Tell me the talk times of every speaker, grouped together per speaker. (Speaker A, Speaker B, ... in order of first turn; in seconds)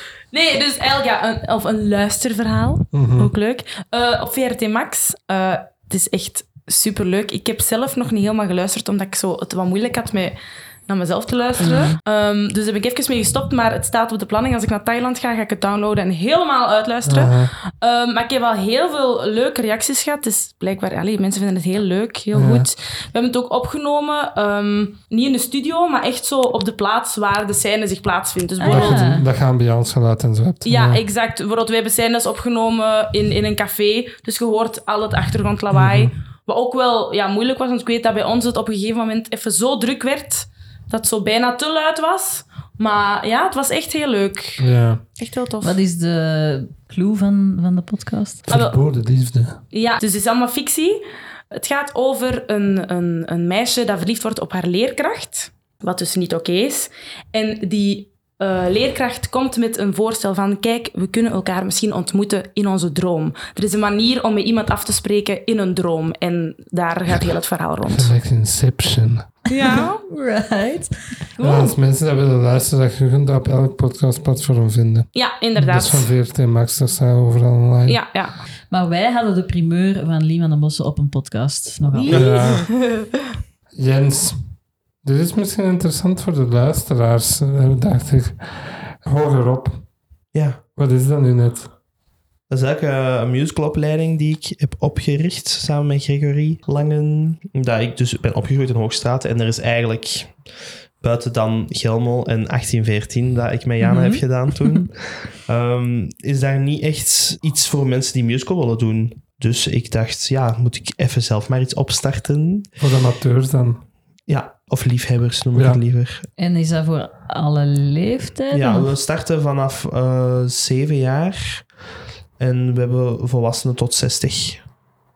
Speaker A: 0.3-10.3, 10.9-29.2, 30.6-44.6, 45.2-45.7, 48.5-48.8, 49.7-51.0, 51.5-68.1, 69.5-70.0, 75.1-76.1, 77.9-78.3, 81.9-83.1
Speaker B: 2.9-3.3, 17.0-17.5, 22.3-22.7, 28.7-31.0, 35.7-36.1, 44.6-45.0, 48.5-49.6, 67.8-69.3, 71.4-78.0, 82.1-82.7, 83.7-84.5, 85.0-89.8, 90.8-91.7, 112.8-113.8, 115.5-115.8
Speaker C: 28.6-29.2, 45.6-48.4, 69.5-71.7, 78.7-82.1, 103.8-104.8, 116.4-118.9
Speaker D: 82.1-82.3, 90.3-90.6, 92.5-100.4, 101.0-112.7, 114.3-116.3, 118.5-121.6, 122.4-124.6